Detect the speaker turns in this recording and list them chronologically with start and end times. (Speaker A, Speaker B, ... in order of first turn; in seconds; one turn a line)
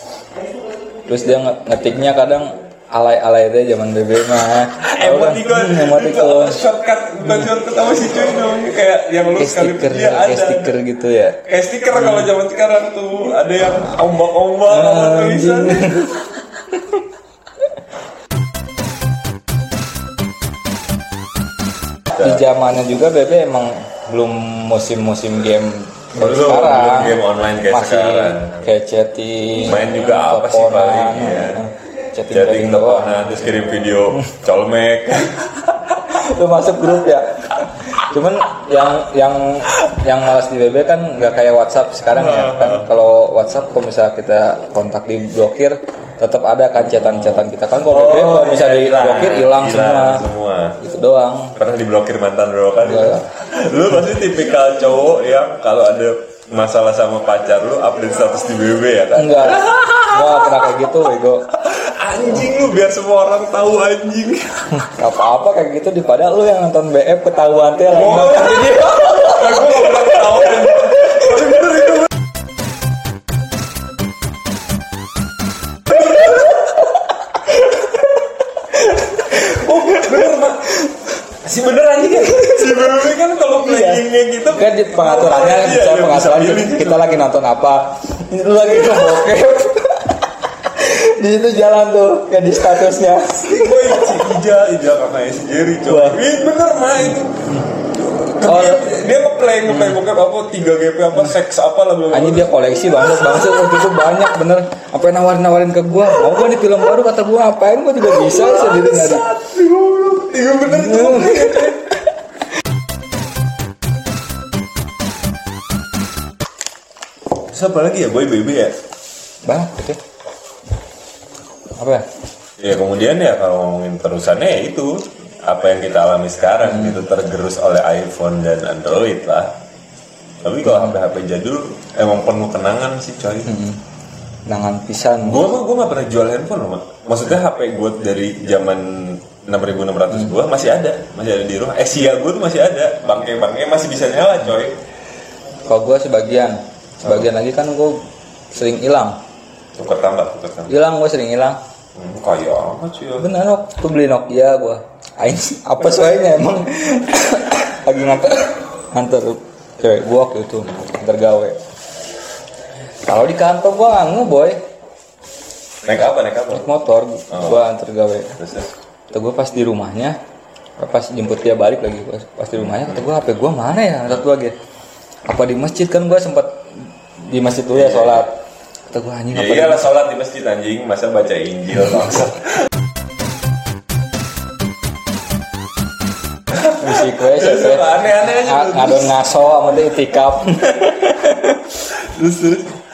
Speaker A: 1.1-6.6
Speaker B: 4.8-10.8
Speaker A: 9.4-11.4
Speaker B: 11.4-16.2
Speaker A: 14.7-16.1
Speaker A: 22.1-33.1
Speaker B: 26.1-28.6
Speaker B: 29.5-31.6
Speaker B: 32.3-36.0
Speaker A: 36.1-50.2
Speaker B: 42.1-42.9
Speaker B: 46.8-50.8
Speaker A: 50.8-51.5
Speaker B: 51.5-60.8
Speaker A: 52.8-53.2
Speaker A: 59.1-61.5
Speaker B: 61.5-64.8
Speaker A: 64.9-70.5
Speaker B: 67.9-72.1
Speaker A: 78.9-81.0
Speaker B: 79.3-80.8
Speaker B: 81.3-87.2
Speaker A: 82.3-82.9
Speaker A: 83.6-94.3
Speaker B: 93.3-103.9
Speaker A: 95.9-96.2
Speaker A: 98.4-98.8
Speaker A: 99.7-100.0
Speaker A: 102.1-109.2
Speaker B: 108.0-111.9
Speaker A: 110.7-111.8
Speaker B: 117.5-118.8
Speaker A: 119.4-120.0
Speaker A: 121.8-122.0
Speaker B: 122.6-129.5
Speaker A: 126.6-127.0
Speaker B: 130.4-133.5
Speaker A: 130.7-130.9
Speaker A: 133.5-133.8
Speaker A: 134.5-135.5
Speaker B: 135.2-144.8
Speaker A: 145.7-148.0
Speaker A: 148.5-149.2
Speaker B: 149.8-150.7
Speaker A: 150.7-151.6
Speaker B: 151.9-153.3
Speaker A: 153.2-161.6
Speaker A: 163.1-164.6
Speaker B: 165.8-166.7
Speaker A: 166.5-168.4
Speaker B: 167.3-167.6
Speaker B: 168.4-168.7
Speaker A: 169.1-170.2
Speaker A: 170.8-174.5
Speaker B: 172.6-173.0
Speaker A: 175.2-176.7
Speaker A: 177.2-178.4
Speaker B: 177.7-178.2
Speaker A: 178.9-179.9
Speaker B: 179.3-182.6
Speaker A: 186.7-191.6
Speaker B: 187.3-189.2
Speaker B: 191.7-192.8